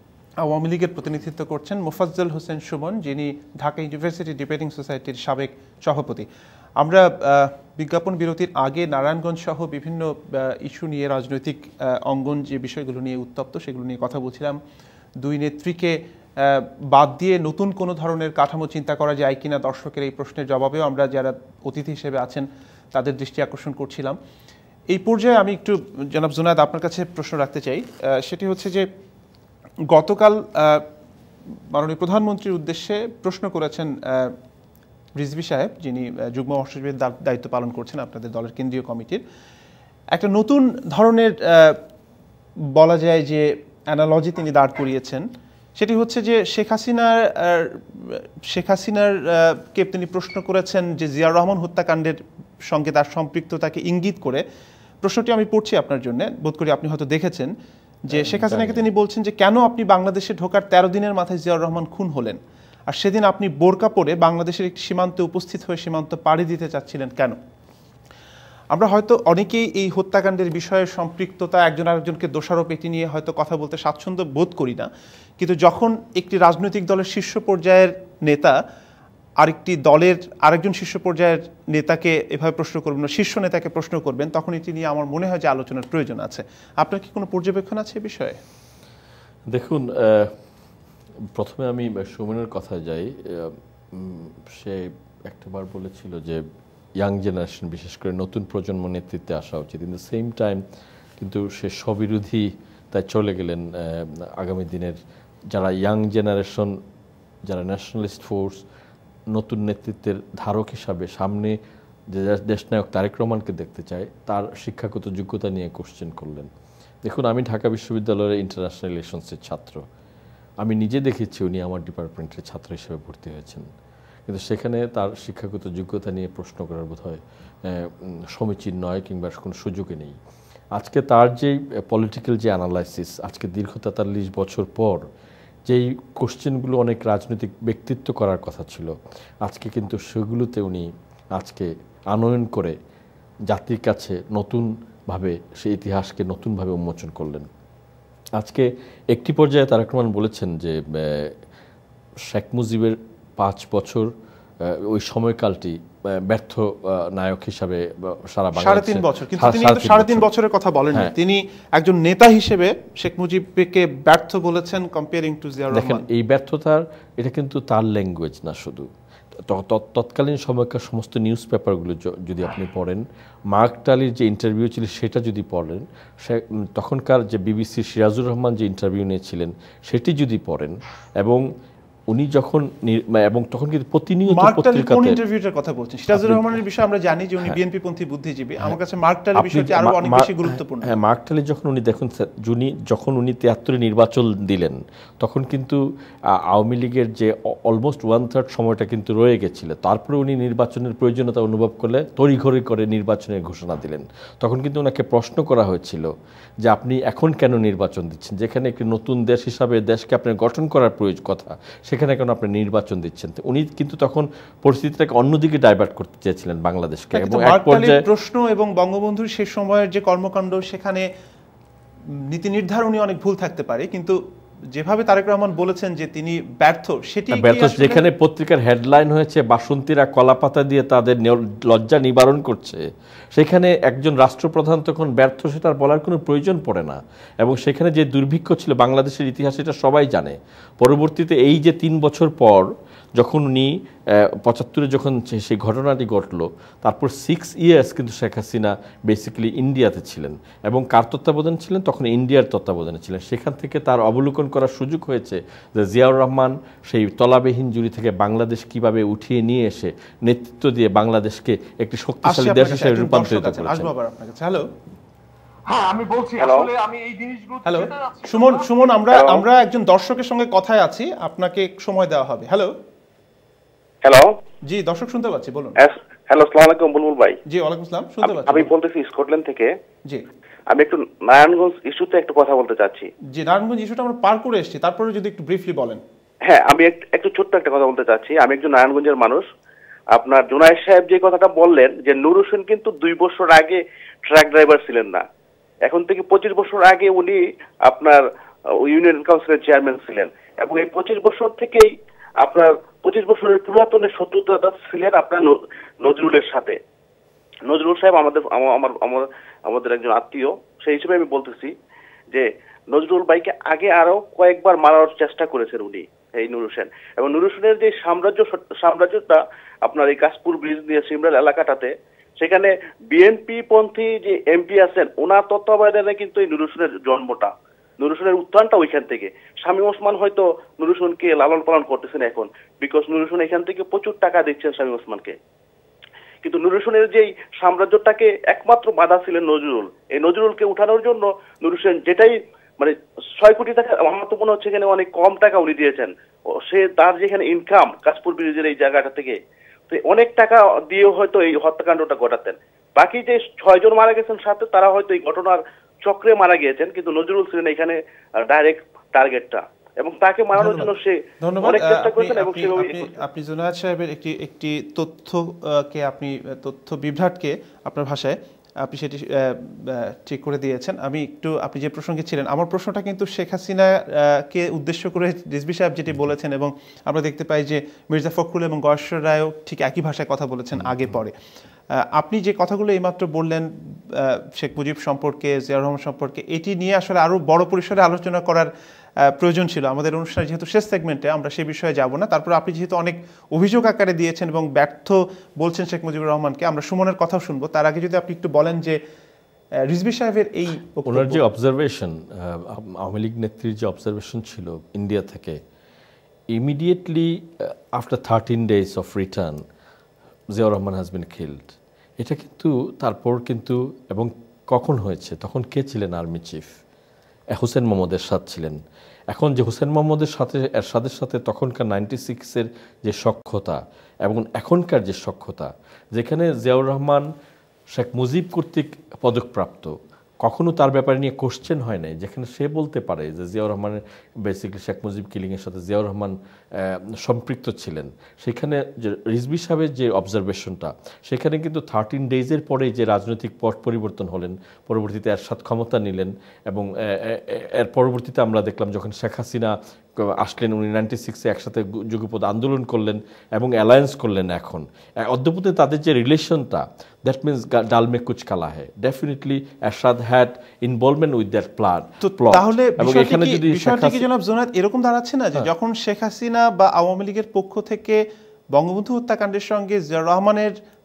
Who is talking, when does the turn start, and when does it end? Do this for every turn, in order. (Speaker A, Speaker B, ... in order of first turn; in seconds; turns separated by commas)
Speaker A: 0.4-6.3, Speaker A: 6.8-14.6, Speaker A: 15.2-24.2, Speaker A: 24.9-28.9, Speaker A: 29.9-30.9, Speaker A: 31.7-34.4, Speaker A: 35.2-39.2, Speaker A: 40.1-41.8, Speaker A: 42.8-54.4, Speaker A: 55.0-57.5, Speaker A: 58.0-67.4, Speaker B: 58.1-58.9, Speaker A: 68.7-78.6, Speaker A: 79.4-88.4, Speaker B: 89.5-90.4, Speaker B: 91.3-96.4, Speaker B: 97.0-100.6, Speaker B: 101.2-105.0, Speaker B: 105.5-106.8, Speaker B: 107.5-108.6, Speaker B: 109.3-111.6, Speaker B: 112.1-116.5, Speaker B: 117.0-119.8, Speaker B: 120.6-123.7, Speaker B: 124.3-130.1, Speaker B: 130.8-135.0, Speaker B: 135.7-142.8, Speaker B: 143.5-147.5, Speaker B: 148.4-151.3, Speaker B: 152.3-154.1, Speaker B: 154.6-160.3, Speaker A: 158.6-166.1, Speaker B: 165.7-181.4, Speaker B: 182.1-185.2, Speaker A: 184.3-190.9, Speaker B: 186.1-186.6, Speaker B: 189.4-195.8, Speaker B: 196.5-206.1, Speaker B: 206.6-218.0, Speaker A: 217.2-221.1, Speaker A: 222.3-224.2, Speaker A: 224.7-228.0, Speaker B: 227.3-242.7, Speaker B: 243.2-243.7, Speaker B: 244.4-263.9, Speaker A: 262.3-264.7, Speaker C: 265.7-268.9, Speaker D: 266.4-266.7, Speaker A: 267.7-272.7, Speaker D: 269.1-269.4, Speaker D: 274.1-274.3, Speaker A: 274.7-275.8, Speaker D: 275.8-277.4, Speaker A: 277.5-278.7, Speaker D: 278.2-279.7, Speaker D: 280.7-283.1, Speaker A: 283.3-286.0, Speaker D: 286.5-289.4, Speaker D: 290.1-295.2, Speaker D: 295.9-306.8, Speaker D: 307.7-311.7, Speaker D: 312.3-335.4, Speaker D: 336.4-349.4, Speaker D: 349.9-363.1, Speaker A: 360.6-360.9, Speaker A: 361.4-381.3, Speaker B: 380.8-381.1, Speaker A: 382.0-388.7, Speaker A: 389.3-399.0, Speaker A: 399.9-401.4, Speaker B: 401.1-405.6, Speaker B: 406.5-409.6, Speaker B: 410.5-416.7, Speaker B: 417.5-418.8, Speaker B: 419.3-427.3, Speaker B: 427.9-464.3, Speaker A: 462.2-470.7